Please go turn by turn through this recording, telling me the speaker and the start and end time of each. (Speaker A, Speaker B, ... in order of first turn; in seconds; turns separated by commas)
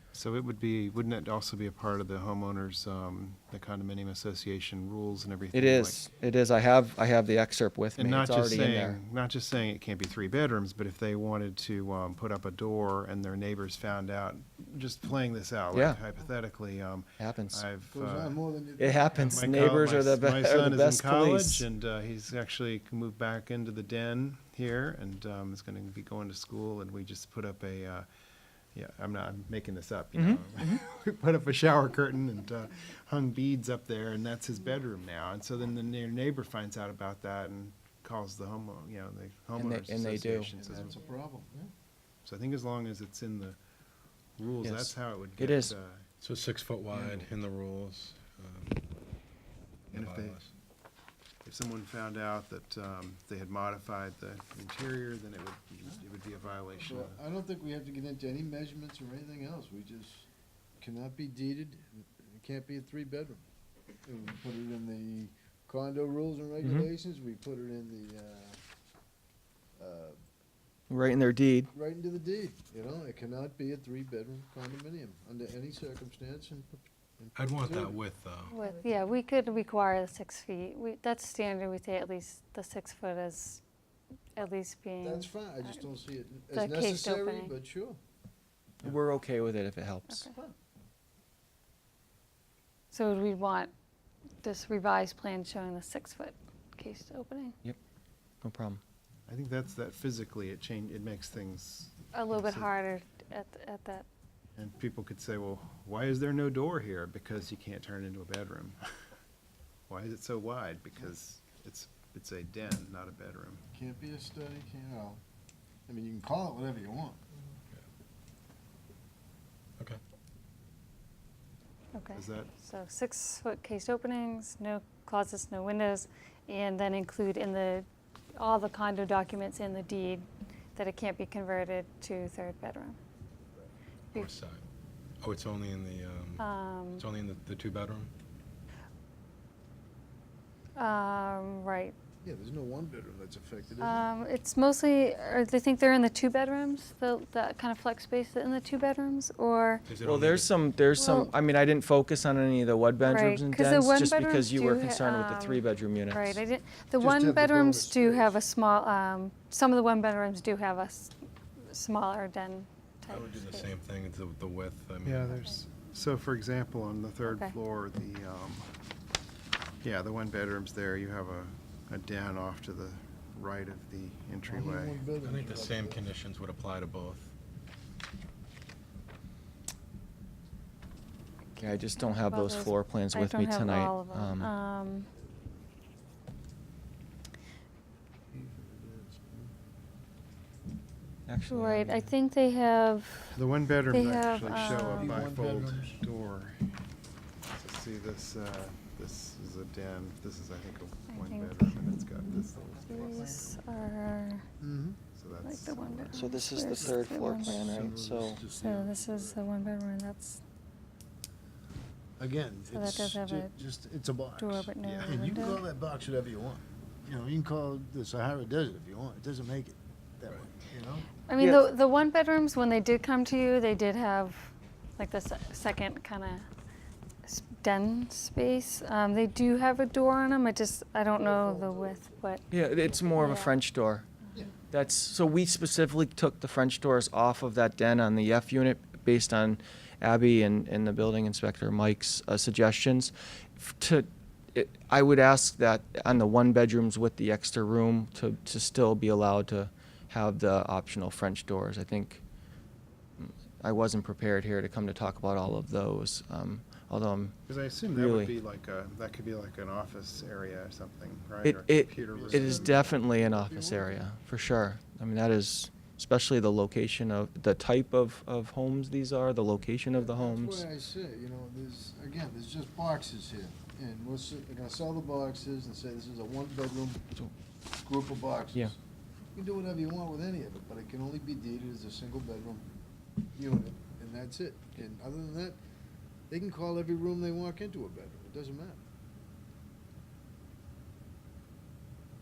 Speaker A: 0.1-6.0, Speaker B: 5.5-9.0, Speaker A: 8.0-18.4, Speaker B: 15.7-16.0, Speaker B: 17.2-17.6, Speaker C: 17.9-19.4, Speaker B: 18.8-21.6, Speaker A: 19.2-28.1, Speaker A: 28.7-41.0, Speaker B: 30.1-30.4, Speaker B: 39.5-40.5, Speaker C: 40.5-41.7, Speaker A: 42.2-43.6, Speaker A: 44.4-46.0, Speaker B: 44.6-45.7, Speaker D: 46.2-48.8, Speaker D: 49.9-50.5, Speaker A: 49.9-50.4, Speaker A: 51.4-57.2, Speaker C: 56.9-60.3, Speaker C: 60.8-63.4, Speaker C: 64.0-68.6, Speaker B: 66.6-66.9, Speaker C: 69.8-70.2, Speaker B: 70.9-71.7, Speaker C: 71.7-78.0, Speaker D: 77.3-78.5, Speaker E: 78.5-83.6, Speaker E: 84.3-85.8, Speaker C: 85.0-88.0, Speaker E: 86.5-87.5, Speaker B: 88.8-90.3, Speaker E: 90.1-90.4, Speaker E: 92.9-93.7, Speaker E: 94.4-97.5, Speaker B: 98.4-98.8, Speaker A: 99.3-102.7, Speaker E: 102.1-104.0, Speaker A: 104.5-108.8, Speaker A: 109.9-113.6, Speaker C: 113.7-115.2, Speaker C: 115.9-117.2, Speaker E: 121.9-133.0, Speaker A: 122.1-122.5, Speaker D: 134.1-134.6, Speaker D: 135.2-138.1, Speaker E: 136.4-137.1, Speaker E: 140.8-141.9, Speaker C: 142.2-144.1, Speaker E: 143.8-149.8, Speaker D: 149.9-150.6, Speaker B: 150.0-156.4, Speaker E: 150.9-151.3, Speaker E: 153.0-163.7, Speaker C: 157.0-158.4, Speaker D: 163.1-165.3, Speaker A: 165.0-168.7, Speaker E: 167.2-167.5, Speaker A: 169.8-175.0, Speaker C: 174.5-176.1, Speaker D: 175.2-177.3, Speaker B: 181.6-184.5, Speaker E: 182.0-185.1, Speaker C: 188.3-189.5, Speaker B: 191.3-192.1, Speaker E: 191.5-193.4, Speaker A: 193.3-196.6, Speaker E: 193.9-195.2, Speaker C: 194.6-196.0, Speaker A: 197.5-203.6, Speaker E: 201.1-201.5, Speaker E: 202.9-204.4, Speaker C: 203.0-203.3, Speaker C: 204.6-205.0, Speaker A: 205.1-206.3, Speaker E: 205.4-207.9, Speaker B: 206.1-208.4, Speaker C: 206.6-209.5, Speaker E: 208.5-210.4, Speaker C: 212.2-221.1, Speaker E: 212.7-213.6, Speaker E: 214.3-215.6, Speaker A: 214.8-215.3, Speaker E: 221.3-226.5, Speaker E: 227.2-233.6, Speaker C: 231.1-232.2, Speaker B: 232.5-234.1, Speaker B: 234.7-252.2, Speaker B: 253.2-257.4, Speaker A: 257.5-263.0, Speaker B: 257.9-258.3, Speaker B: 261.4-270.6, Speaker C: 262.1-264.1, Speaker C: 269.9-277.0, Speaker C: 277.8-278.7, Speaker C: 279.3-282.7, Speaker C: 283.3-285.6, Speaker C: 286.3-288.8